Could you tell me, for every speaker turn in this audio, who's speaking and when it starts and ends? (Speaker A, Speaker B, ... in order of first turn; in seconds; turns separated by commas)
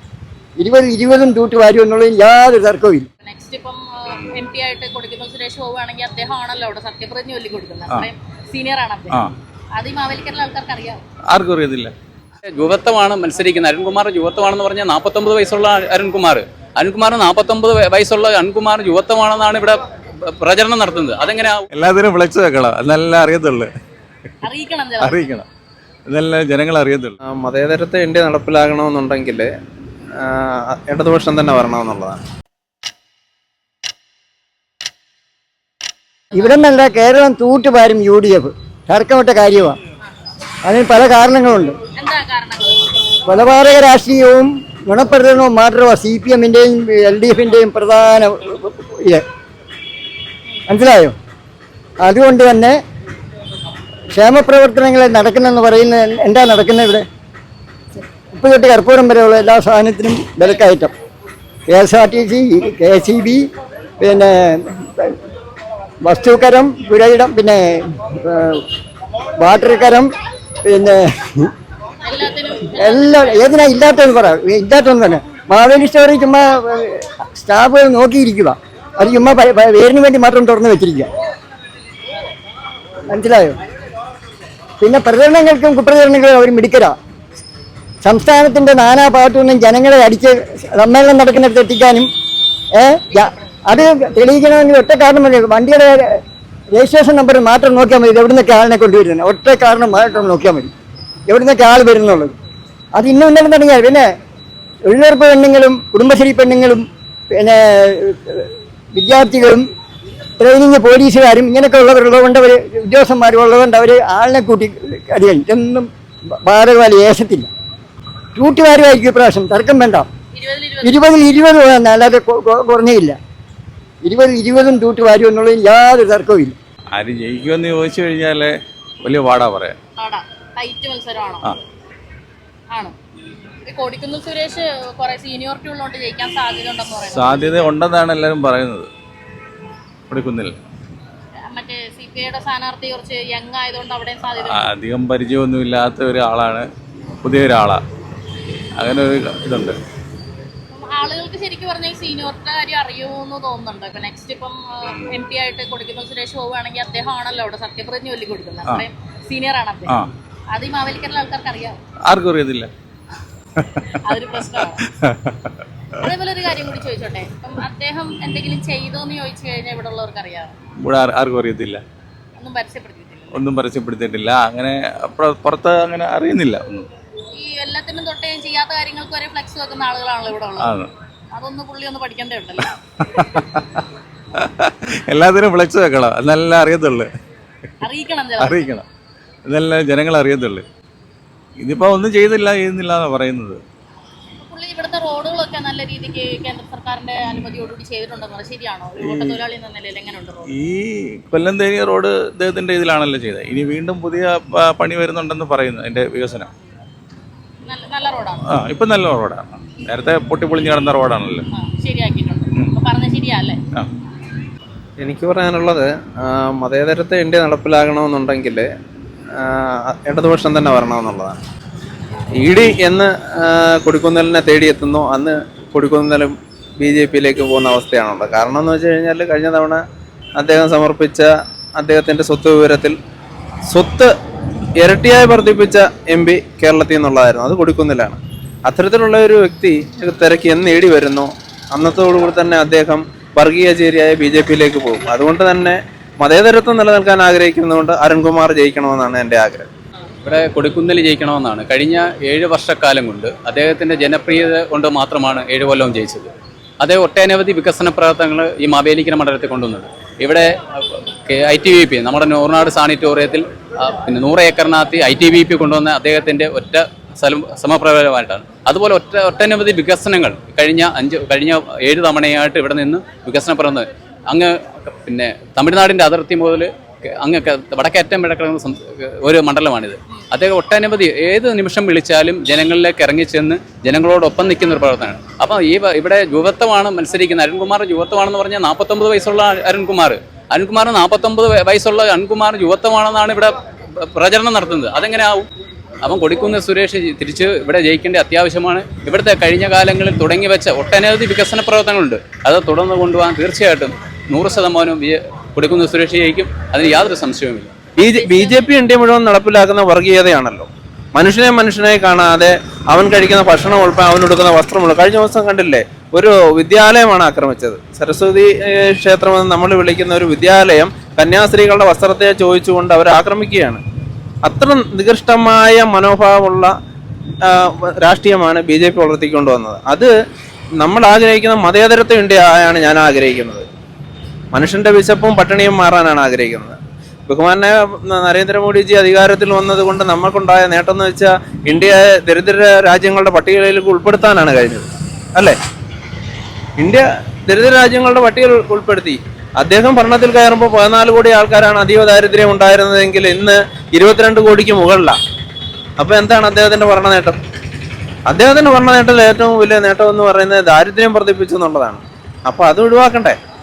Speaker A: 0.6-3.1, Speaker B: 3.2-9.2, Speaker B: 9.8-11.0, Speaker C: 11.3-11.9, Speaker D: 12.5-21.6, Speaker C: 21.7-23.7, Speaker B: 24.4-25.2, Speaker C: 25.0-25.5, Speaker C: 26.1-27.2, Speaker E: 27.2-29.5, Speaker E: 30.2-32.2, Speaker A: 36.3-39.8, Speaker A: 40.6-41.8, Speaker B: 41.9-43.0, Speaker A: 43.3-49.2, Speaker A: 50.7-51.1, Speaker A: 52.0-52.8, Speaker A: 54.1-57.0, Speaker A: 58.3-60.9, Speaker A: 61.7-63.5, Speaker A: 64.0-65.2, Speaker A: 66.0-68.6, Speaker A: 69.4-70.1, Speaker A: 70.7-71.5, Speaker B: 72.0-73.8, Speaker A: 72.8-81.1, Speaker A: 83.1-83.6, Speaker A: 84.8-87.0, Speaker A: 88.0-92.1, Speaker A: 92.8-100.7, Speaker A: 101.3-102.3, Speaker A: 103.0-104.1, Speaker A: 104.9-109.6, Speaker A: 110.4-115.9, Speaker A: 116.4-117.5, Speaker A: 118.3-120.1, Speaker B: 120.3-121.1, Speaker A: 120.8-123.2, Speaker A: 124.0-126.5, Speaker C: 126.9-129.8, Speaker B: 130.0-131.5, Speaker B: 133.7-137.8, Speaker C: 137.1-138.9, Speaker C: 140.1-140.5, Speaker B: 141.5-144.7, Speaker C: 144.4-146.7, Speaker C: 147.2-147.8, Speaker C: 148.8-149.8, Speaker B: 150.7-160.0, Speaker B: 160.5-161.8, Speaker C: 162.1-162.7, Speaker C: 163.6-164.0, Speaker B: 164.0-164.9, Speaker C: 164.5-165.6, Speaker B: 166.0-170.5, Speaker C: 170.8-171.8, Speaker B: 172.4-173.4, Speaker C: 173.3-176.9, Speaker B: 177.3-180.8, Speaker C: 180.6-180.9, Speaker B: 181.3-182.8, Speaker C: 183.0-183.8, Speaker C: 184.3-187.1, Speaker B: 187.8-188.7, Speaker C: 188.4-188.9, Speaker C: 189.5-190.7, Speaker C: 191.6-193.6, Speaker B: 194.4-200.5, Speaker C: 199.0-199.4, Speaker C: 200.5-206.5, Speaker B: 207.7-208.4, Speaker C: 208.5-211.5, Speaker B: 211.5-213.6, Speaker E: 215.0-218.7, Speaker E: 219.3-221.4, Speaker E: 222.3-229.8, Speaker E: 230.4-233.0, Speaker E: 233.7-234.1, Speaker E: 234.8-249.7, Speaker D: 250.2-295.5, Speaker D: 296.0-307.7, Speaker E: 308.0-323.8, Speaker B: 308.2-308.6, Speaker E: 324.4-326.7, Speaker E: 327.4-330.1, Speaker E: 330.8-333.7, Speaker E: 334.5-345.6, Speaker E: 346.8-355.2, Speaker E: 356.0-357.4, Speaker E: 358.3-363.4